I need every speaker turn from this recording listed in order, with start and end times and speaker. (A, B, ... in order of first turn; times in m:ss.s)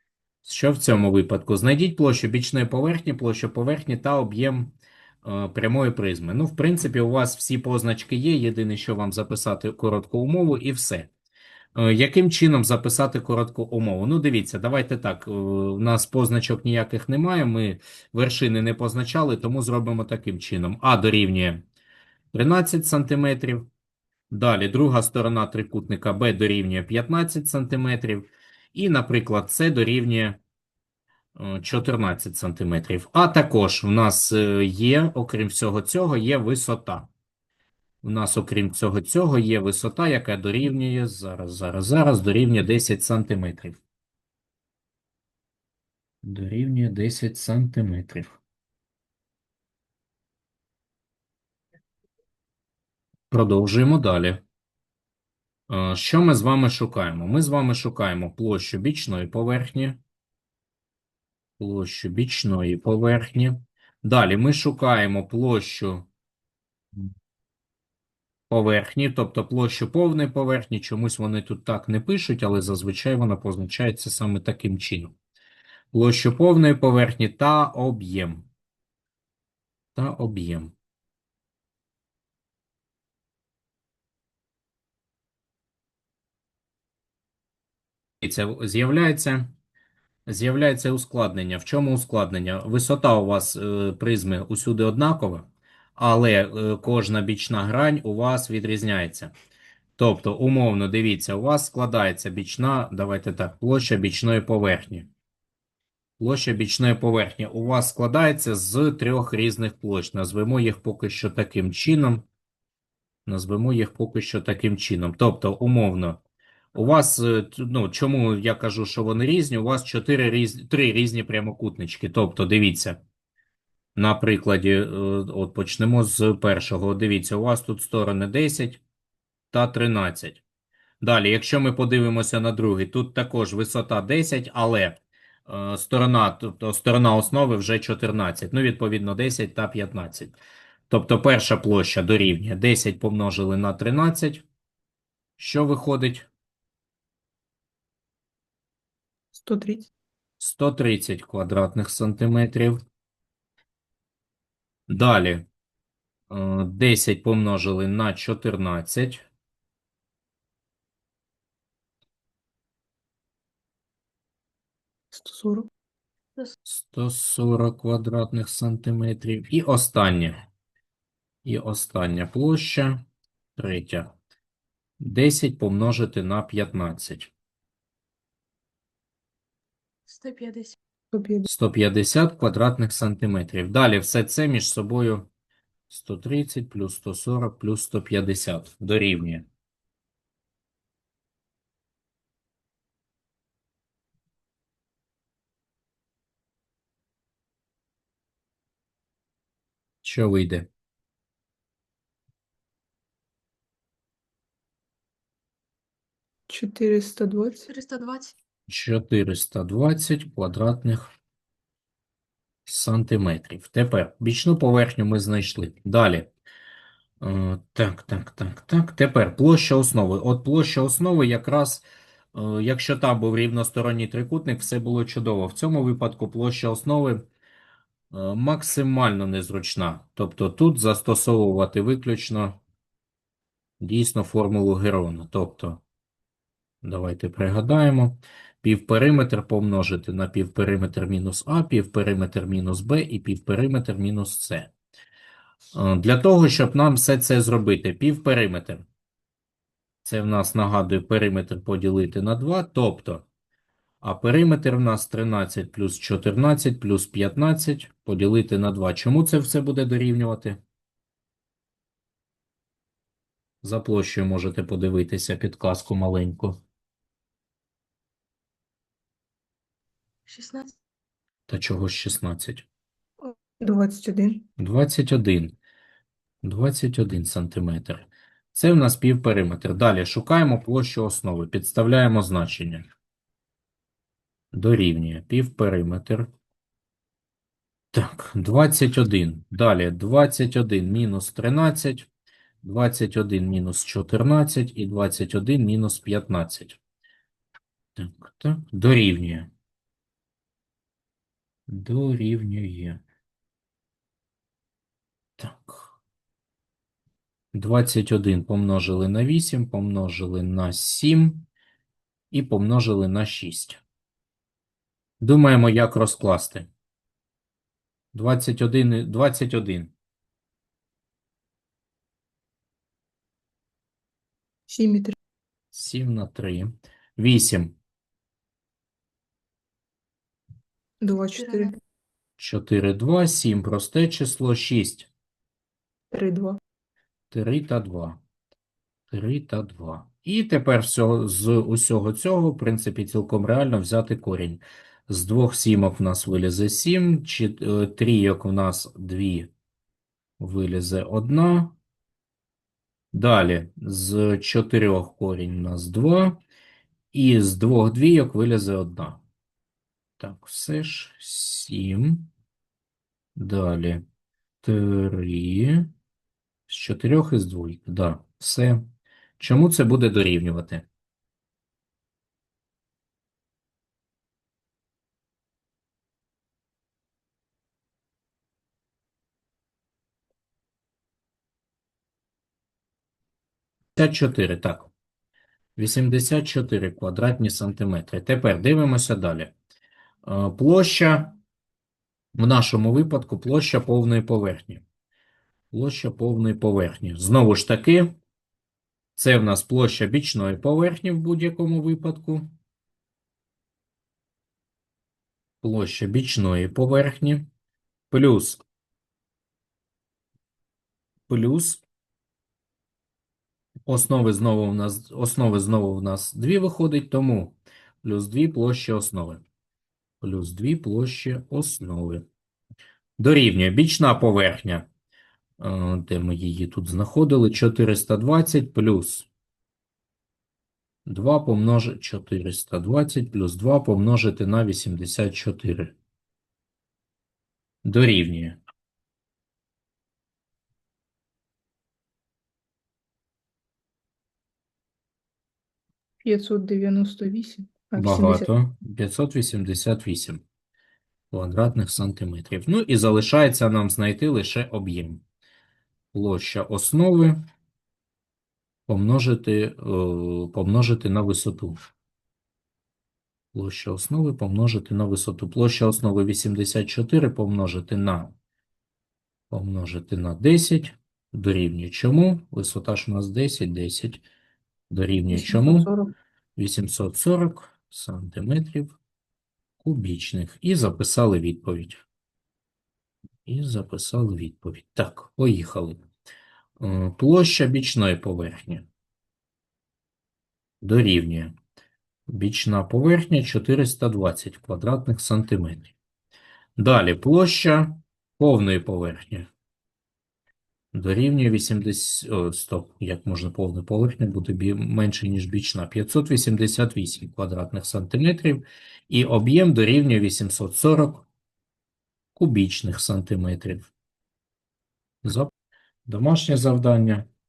0:00.4-0:11.1 A
0:11.7-0:21.6 A
0:22.3-0:23.7 A
0:24.3-0:30.4 A
0:31.3-0:37.1 A
0:38.0-0:43.8 A
0:46.2-0:48.3 A
0:53.3-0:54.4 A
0:55.7-1:00.0 A
1:01.6-1:06.0 A
1:08.5-1:15.1 A
1:15.9-1:18.5 A
1:19.9-1:20.7 A
1:28.2-1:29.5 A
1:30.2-1:39.3 A
1:40.0-1:45.1 A
1:46.2-1:52.2 A
1:53.2-1:56.2 A
1:56.7-2:03.0 A
2:04.0-2:08.8 A
2:09.5-2:10.4 A
2:11.0-2:20.4 A
2:20.9-2:24.4 A
2:25.4-2:26.2 A
2:29.3-2:29.9 B
2:30.4-2:32.8 A
2:34.9-2:35.4 A
2:36.3-2:39.2 A
2:45.1-2:45.7 B
2:46.6-2:50.4 A
2:51.4-2:53.0 A
2:53.6-2:54.1 A
2:55.0-2:57.3 A
3:00.1-3:00.8 C
3:01.1-3:01.5 B
3:01.4-3:05.3 A
3:05.9-3:09.4 A
3:20.0-3:20.7 A
3:26.5-3:27.7 B
3:27.7-3:28.3 C
3:28.7-3:31.1 A
3:32.6-3:36.3 A
3:37.2-3:47.2 A
3:48.1-3:52.6 A
3:53.8-3:55.8 A
3:56.8-4:04.7 A
4:05.7-4:08.8 A
4:10.0-4:13.2 A
4:14.0-4:20.6 A
4:23.6-4:26.6 A
4:30.3-4:30.7 C
4:31.5-4:32.6 A
4:33.2-4:34.4 B
4:34.6-4:35.6 A
4:36.4-4:42.9 A
4:44.5-4:46.3 A
4:47.9-4:52.1 A
4:52.6-4:56.8 A
4:58.0-4:59.5 A
5:01.7-5:03.0 A
5:05.4-5:06.0 A
5:07.5-5:11.5 A
5:12.3-5:13.8 A
5:15.2-5:16.7 A
5:18.1-5:19.9 A
5:24.7-5:25.2 B
5:25.7-5:27.7 A
5:31.0-5:31.8 B
5:31.4-5:31.7 C
5:32.4-5:35.1 A
5:36.1-5:36.6 B
5:37.3-5:38.2 A
5:39.1-5:49.5 A
5:50.4-5:51.8 A
5:53.1-5:56.4 A
5:57.1-5:59.2 A
6:00.2-6:02.3 A
6:03.4-6:04.0 A
6:04.6-6:05.9 A
6:06.7-6:08.9 A
6:09.4-6:10.8 A
6:24.0-6:24.9 A
6:25.8-6:29.5 A
6:30.2-6:31.3 A
6:32.3-6:34.8 A
6:35.7-6:38.1 A
6:39.2-6:42.5 A
6:45.6-6:47.5 A
6:48.1-6:48.6 A
6:51.3-6:51.8 A
6:53.9-6:59.4 A
7:00.2-7:02.2 A
7:03.2-7:04.9 A
7:05.6-7:09.3 A
7:11.0-7:15.9 A
7:17.8-7:18.6 A
7:26.2-7:28.5 B
7:27.9-7:30.4 A
7:31.3-7:35.2 A
7:36.1-7:37.4 A
7:38.9-7:41.8 A
7:43.5-7:48.3 A
7:49.5-7:54.2 A
7:54.9-7:55.9 A
7:55.3-7:56.1 B
7:56.6-7:59.0 A
7:59.8-8:02.0 A
8:03.4-8:06.0 A
8:06.8-8:08.8 A
8:10.8-8:11.5 A
8:12.3-8:15.9 A
8:16.8-8:19.5 A
8:20.9-8:31.2 A
8:32.3-8:33.9 A
8:35.2-8:35.5 A
8:36.0-8:37.2 A